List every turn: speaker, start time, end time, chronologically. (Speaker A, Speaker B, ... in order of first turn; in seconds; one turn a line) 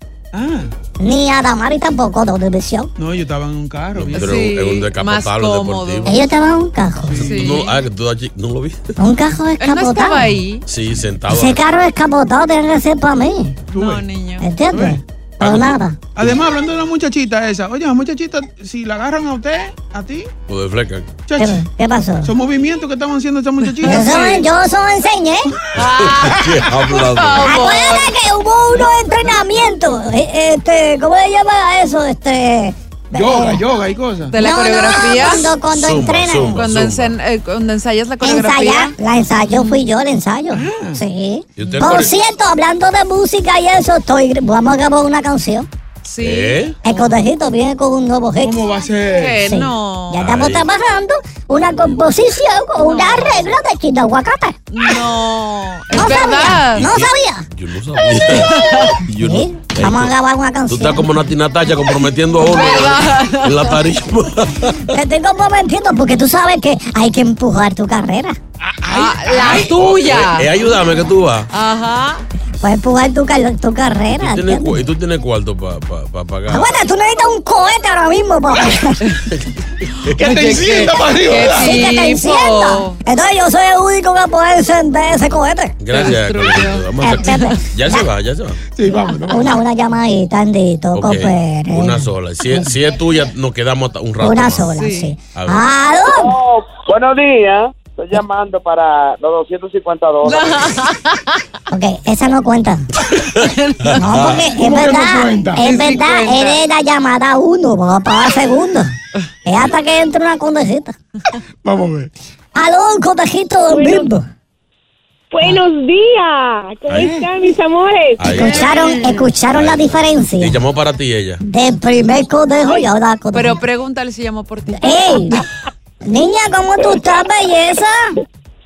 Speaker A: 0.3-0.7
Speaker B: 1.0-2.9
Speaker A: 3.0-4.3
Speaker C: 4.0-6.2
Speaker D: 4.1-6.3
Speaker B: 6.1-7.2
Speaker A: 7.0-7.5
Speaker C: 7.2-8.9
Speaker D: 7.2-7.8
Speaker B: 9.0-10.4
Speaker D: 9.6-10.6
Speaker C: 10.7-11.6
Speaker B: 11.3-13.6
Speaker A: 13.7-14.1
Speaker D: 13.7-14.5
Speaker B: 14.4-16.0
Speaker A: 14.7-15.6
Speaker A: 16.1-20.3
Speaker C: 20.5-21.2
Speaker A: 21.3-21.7
Speaker B: 21.4-22.3
Speaker A: 22.2-24.2
Speaker D: 23.8-24.5
Speaker B: 23.8-25.5
Speaker C: 25.8-27.6
Speaker D: 25.8-28.1
Speaker B: 27.4-33.7
Speaker A: 33.1-34.4
Speaker D: 34.3-35.5
Speaker B: 34.4-36.6
Speaker C: 35.5-37.2
Speaker D: 36.5-39.0
Speaker B: 38.2-45.7
Speaker D: 39.5-39.8
Speaker A: 40.5-41.0
Speaker C: 41.6-42.1
Speaker D: 46.0-47.1
Speaker C: 46.2-46.8
Speaker B: 46.8-48.8
Speaker A: 48.4-49.4
Speaker D: 49.2-50.3
Speaker B: 49.4-54.6
Speaker C: 50.2-50.7
Speaker D: 52.8-53.5
Speaker D: 54.7-56.9
Speaker B: 55.9-57.5
Speaker C: 56.8-60.2
Speaker B: 58.0-61.1
Speaker D: 58.5-59.0
Speaker C: 60.7-64.9
Speaker D: 62.4-63.8
Speaker B: 64.9-68.4
Speaker A: 68.8-69.7
Speaker D: 68.9-70.5
Speaker C: 69.4-71.5
Speaker D: 71.5-72.2
Speaker B: 72.6-74.8
Speaker C: 74.1-76.8
Speaker B: 76.5-79.0
Speaker A: 80.1-81.8
Speaker D: 80.2-83.0
Speaker B: 81.5-85.8
Speaker C: 85.8-88.6
Speaker D: 85.9-87.6
Speaker B: 87.0-88.1
Speaker A: 88.7-89.5
Speaker B: 88.8-92.7
Speaker C: 90.9-94.8
Speaker B: 94.2-96.3
Speaker D: 94.7-95.1
Speaker C: 95.3-95.7
Speaker E: 96.1-100.7
Speaker D: 100.2-101.4
Speaker B: 101.7-102.8
Speaker D: 103.4-103.9
Speaker B: 103.9-108.9
Speaker A: 104.5-105.7
Speaker D: 105.6-106.6
Speaker B: 109.5-111.0
Speaker A: 111.6-112.1
Speaker B: 112.5-114.3
Speaker F: 113.7-114.1
Speaker F: 115.3-118.5
Speaker C: 118.2-118.8
Speaker B: 118.3-120.6
Speaker C: 119.5-121.4
Speaker B: 121.4-123.6
Speaker D: 123.3-125.4
Speaker B: 124.7-125.4
Speaker B: 126.0-128.2